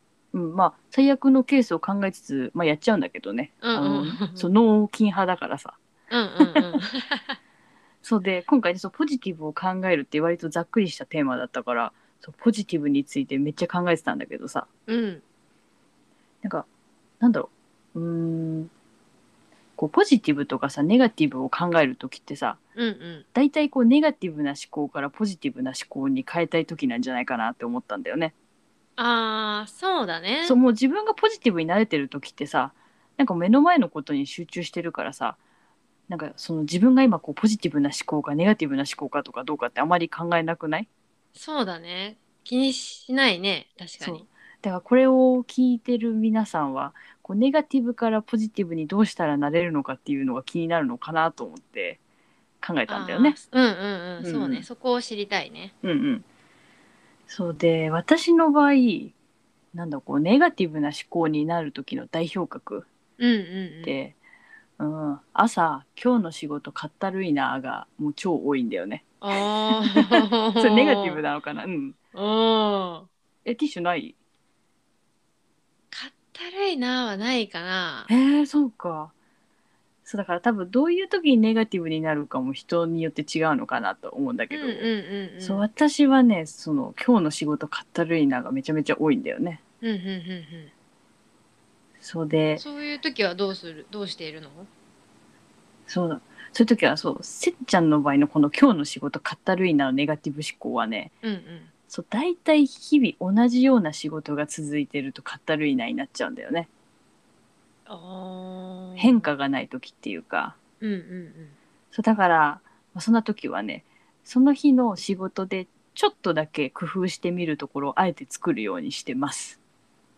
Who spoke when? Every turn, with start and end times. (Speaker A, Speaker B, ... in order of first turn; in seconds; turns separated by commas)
Speaker A: 0.3-5.8, Speaker B: 3.6-4.5, Speaker B: 6.1-7.4, Speaker A: 6.4-6.8, Speaker A: 8.0-14.7, Speaker B: 14.9-15.2, Speaker A: 17.2-18.7, Speaker A: 19.8-22.6, Speaker B: 22.8-23.2, Speaker A: 23.3-28.3, Speaker B: 29.0-30.6, Speaker A: 30.4-35.4, Speaker A: 36.1-40.9, Speaker B: 41.3-44.3, Speaker A: 44.0-52.0, Speaker A: 52.6-53.4, Speaker B: 52.9-55.7, Speaker A: 54.2-54.6, Speaker A: 55.8-56.2, Speaker A: 57.3-59.1, Speaker A: 59.7-62.9, Speaker B: 63.2-63.9, Speaker A: 63.8-64.2, Speaker A: 64.8-72.0, Speaker B: 69.2-71.2, Speaker B: 72.1-73.1, Speaker A: 73.4-74.2, Speaker B: 75.9-78.1, Speaker A: 78.1-79.1, Speaker A: 80.0-84.9, Speaker B: 84.5-85.6, Speaker A: 85.4-89.6, Speaker B: 89.8-90.7, Speaker A: 92.0-92.6, Speaker B: 92.6-94.7, Speaker A: 95.9-101.1, Speaker B: 101.2-101.7, Speaker A: 101.9-106.7, Speaker B: 107.9-109.3, Speaker A: 109.0-110.5, Speaker B: 110.8-111.5, Speaker A: 111.9-119.6